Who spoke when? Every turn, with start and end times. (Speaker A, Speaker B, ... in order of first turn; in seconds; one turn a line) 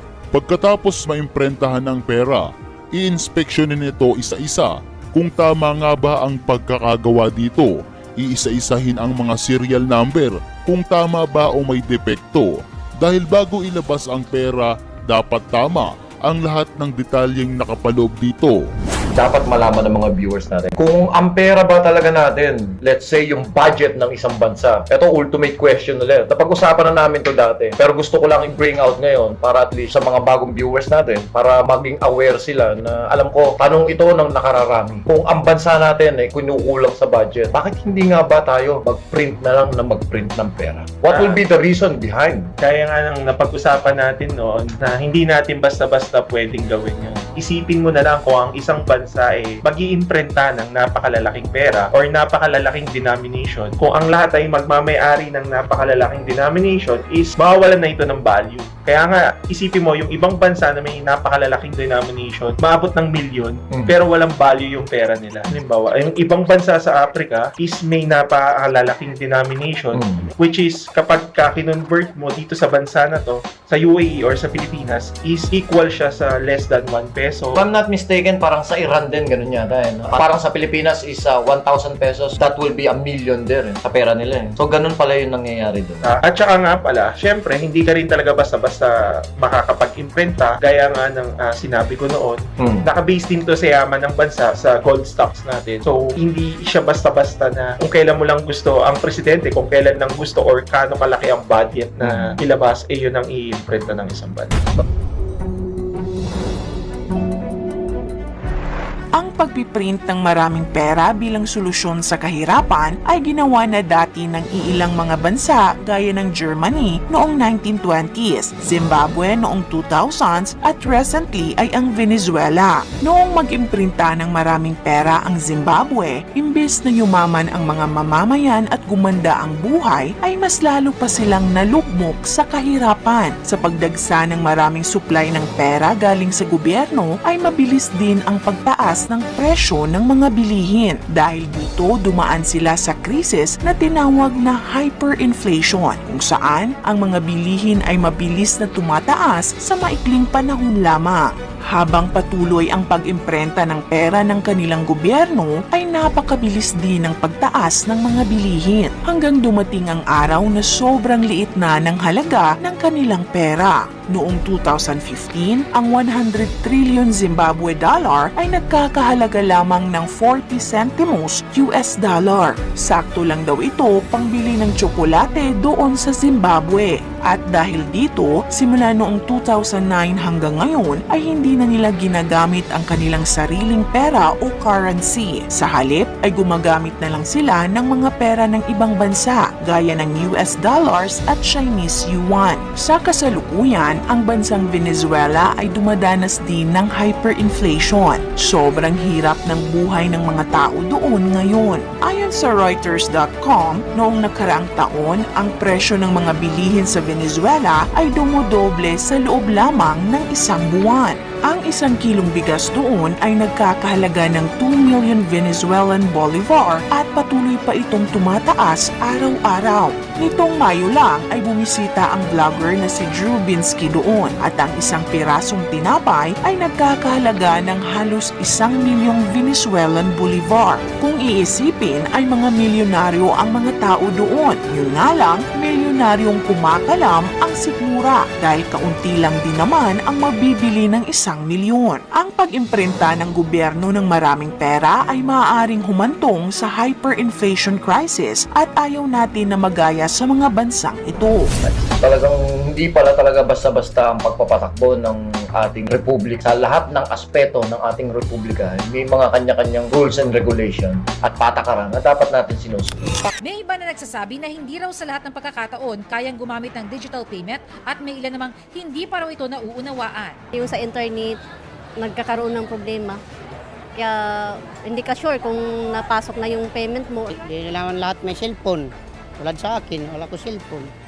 Speaker A: 0.3-18.6
Speaker B: 19.1-42.5
Speaker C: 41.1-41.4
Speaker C: 42.6-77.6
Speaker B: 69.9-70.3
Speaker B: 77.5-86.1
Speaker C: 86.0-104.6
Speaker B: 92.6-92.9
Speaker B: 102.0-102.4
Speaker D: 109.1-251.5
Speaker B: 251.7-263.3
Speaker E: 263.4-270.4
Speaker F: 270.5-271.4
Speaker F: 272.0-273.2
Speaker F: 274.0-277.4
Speaker G: 277.5-280.9